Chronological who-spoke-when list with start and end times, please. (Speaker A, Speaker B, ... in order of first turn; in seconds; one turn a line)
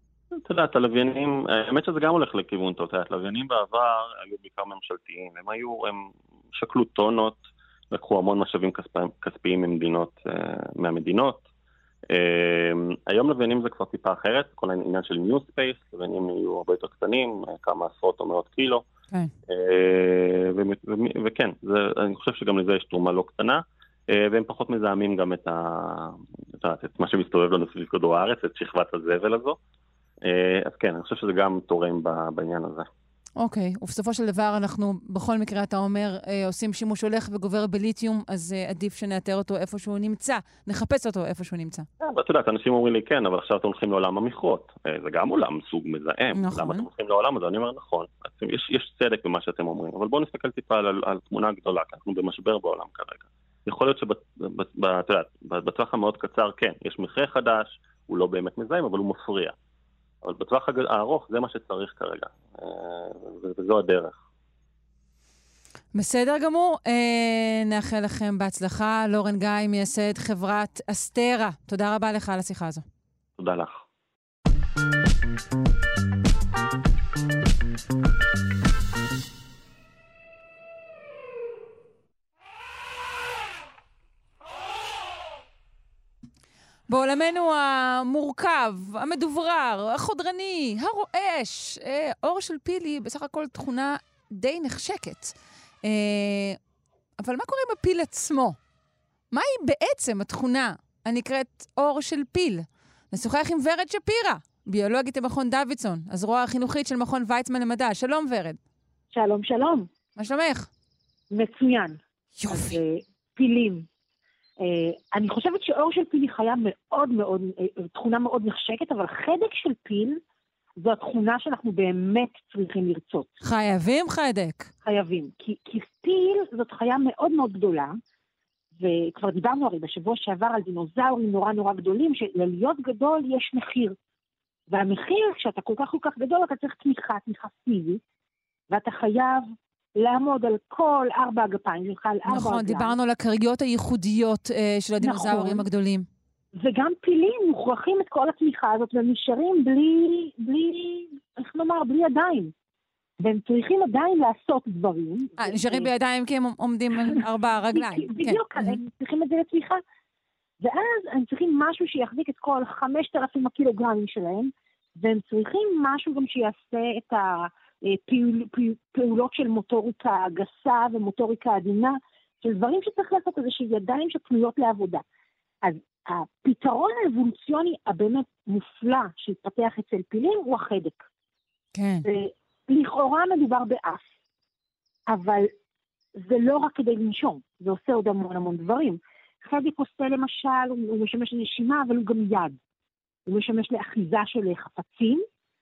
Speaker A: 0.3-11.4
Speaker A: 12.1-18.9
Speaker A: 19.5-29.6
Speaker A: 30.2-32.9
Speaker B: 33.4-41.9
Speaker A: 42.0-59.5
Speaker B: 46.3-46.9
Speaker A: 60.2-64.2
Speaker B: 65.9-72.8
Speaker A: 73.4-73.8
Speaker B: 86.9-96.6
Speaker B: 97.2-98.6
Speaker B: 99.3-108.6
Speaker C: 109.1-109.9
Speaker B: 110.2-110.7
Speaker C: 111.3-113.8
Speaker B: 112.4-112.8
Speaker C: 114.6-120.2
Speaker C: 120.8-123.3
Speaker B: 123.4-124.7
Speaker C: 124.8-128.0
Speaker C: 128.8-133.9
Speaker C: 134.7-138.0
Speaker C: 138.7-139.4
Speaker C: 140.0-143.0
Speaker B: 142.3-146.1
Speaker C: 145.0-145.6
Speaker C: 146.6-152.5
Speaker C: 153.2-155.9
Speaker B: 155.4-158.8
Speaker C: 157.1-159.8
Speaker C: 160.6-175.0
Speaker C: 175.6-181.0
Speaker B: 181.7-182.1
Speaker C: 182.0-184.1
Speaker C: 185.1-185.5
Speaker C: 186.2-192.6
Speaker C: 193.3-195.2